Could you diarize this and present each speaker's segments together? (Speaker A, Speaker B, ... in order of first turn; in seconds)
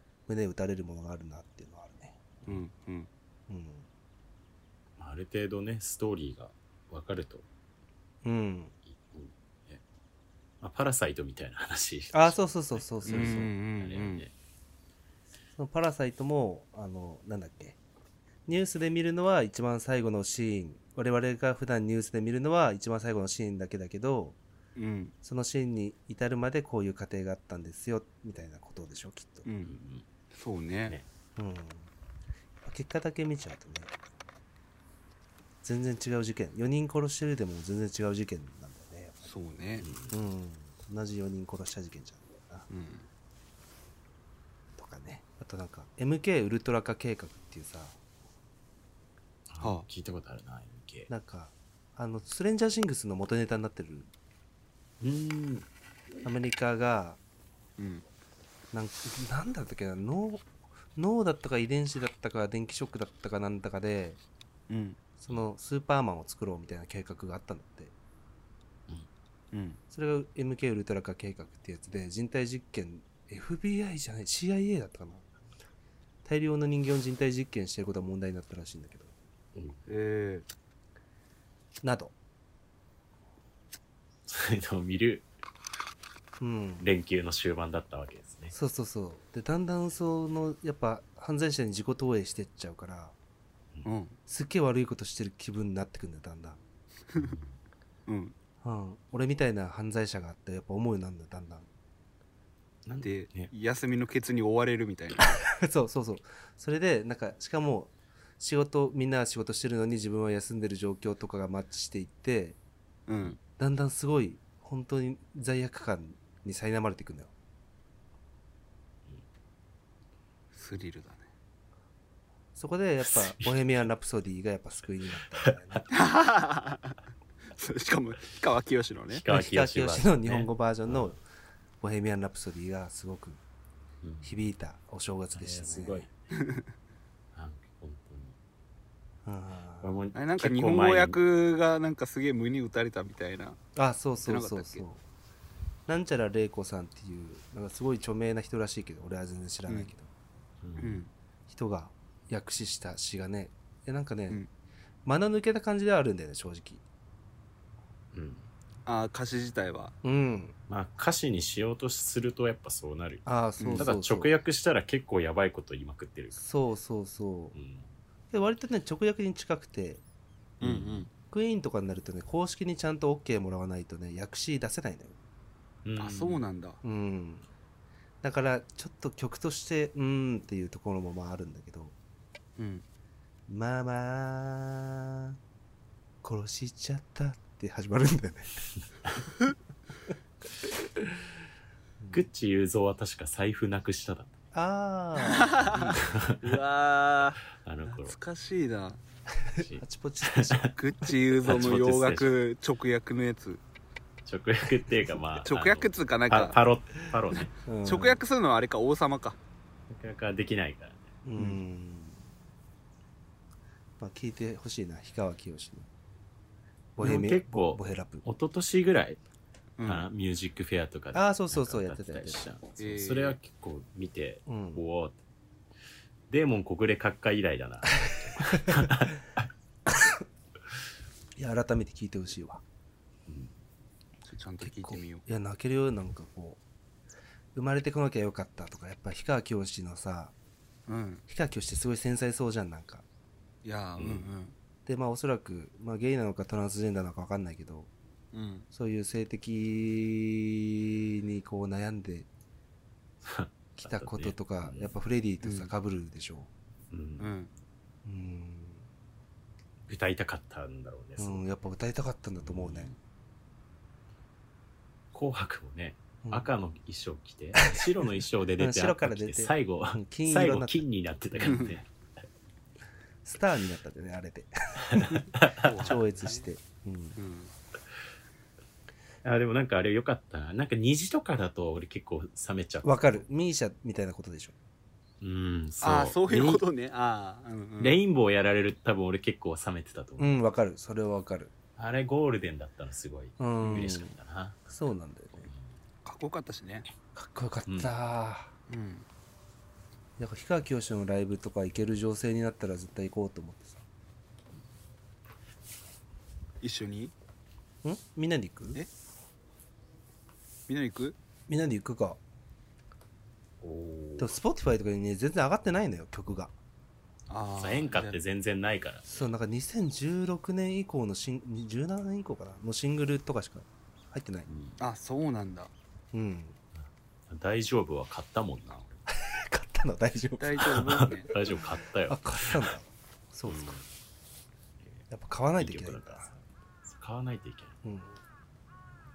Speaker A: 0.3-2.3, 3.5-3.9, 8.2-8.7, 12.1-13.5, 15.6-17.8, 18.4-24.4, 25.2-29.4, 31.4-31.9, 32.6-33.9, 35.6-39.3, 40.1-42.7, 44.8-48.0, 51.1-54.1, 56.2-57.2, 58.7-64.2, 65.2-67.9, 69.9-75.2, 76.2-79.1, 81.8-82.1, 86.4-86.8, 88.5-93.2, 94.3-96.6, 98.6-101.7, 105.5-112.6, 113.6-117.3, 122.5-125.9, 129.3-131.2, 131.8-133.4, 134.2-136.1, 139.2-139.9, 143.8-145.0, 145.9-150.1, 151.5-154.4, 155.0-156.8, 160.0-160.5, 163.2-164.3, 166.3-167.6, 168.3-170.0, 171.3-175.2, 176.8-177.4, 178.2-181.9, 183.5-185.4, 186.2-188.5, 192.0-192.3, 194.5-195.9, 199.4-200.7, 207.6-208.2, 211.2-212.2, 214.0-215.9, 216.9-218.2, 221.1-222.4, 224.5-224.8, 231.3-232.6, 234.6-236.6, 237.5-240.3, 241.3-243.0, 244.8-247.9, 248.7-252.3, 253.8-256.5, 258.0-258.8, 261.2-262.9, 266.2-266.5, 267.6-270.8, 273.2-275.3, 275.8-277.2, 282.8-284.5, 290.2-291.5, 293.4-294.1, 294.7-295.5, 297.1-298.5, 300.2-303.8, 307.8-308.8, 311.5-312.2, 314.2-316.5, 319.1-324.5, 326.1-326.6, 329.1-331.1, 332.1-333.8, 335.1-336.3, 337.8-338.2
Speaker B: 2.5-3.1, 13.1-14.2, 24.8-25.1, 29.4-29.8, 30.3-31.0, 39.2-39.9, 42.7-43.1, 49.6-49.9, 57.8-58.0, 64.7-65.0, 69.5-69.8, 79.9-80.5, 93.8-94.2, 98.1-98.3, 103.0-105.4, 113.1-113.4, 120.5-121.3, 125.9-127.0, 127.5-129.2, 136.3-136.6, 140.1-143.6, 144.2-144.8, 150.8-151.1, 158.8-159.9, 163.6-163.9, 170.6-171.1, 176.0-176.8, 182.6-182.8, 195.2-197.4, 198.0-199.0, 200.7-203.6, 205.4-206.6, 207.8-209.4, 219.8-220.1, 222.8-223.4, 234.2-235.2, 240.9-241.2, 243.6-244.5, 248.3-248.7, 255.4-255.7, 257.2-257.5, 271.4-271.7, 275.5-276.4, 277.1-277.5, 285.8-288.0, 296.0-296.9, 298.7-299.1, 306.6-307.1, 310.7-311.1, 317.3-318.2, 324.8-325.7, 330.4-331.3
Speaker C: 5.0-7.4, 8.8-9.8, 10.6-14.3, 29.7-30.1, 39.8-40.1, 49.5-51.1, 55.0-55.7, 79.5-79.8, 84.3-85.3, 86.8-88.5, 97.2-97.5, 102.8-103.5, 123.0-123.5, 125.4-125.8, 129.1-131.1, 134.0-134.3, 135.3-136.1, 137.3-138.3, 139.8-141.2, 150.6-151.0, 158.1-158.5, 160.7-163.2, 163.8-166.4, 167.5-167.9, 170.6-171.1, 175.8-176.4, 192.1-194.4, 195.9-196.5, 197.5-198.2, 199.6-200.7, 201.4-202.4, 204.2-207.5, 209.9-211.1, 217.0-219.2, 219.8-225.2, 226.3-229.4, 233.3-233.5, 244.0-244.3, 253.2-254.9, 256.9-257.3, 259.9-261.4, 262.4-262.9, 265.1-271.9, 274.9-275.8, 279.2-283.2, 285.2-286.6, 287.8-290.4, 291.8-294.6, 297.7-297.9, 313.6-314.3, 317.6-319.3, 324.5-324.8, 327.3-328.9, 330.7-332.7, 333.4-333.9, 335.6-337.8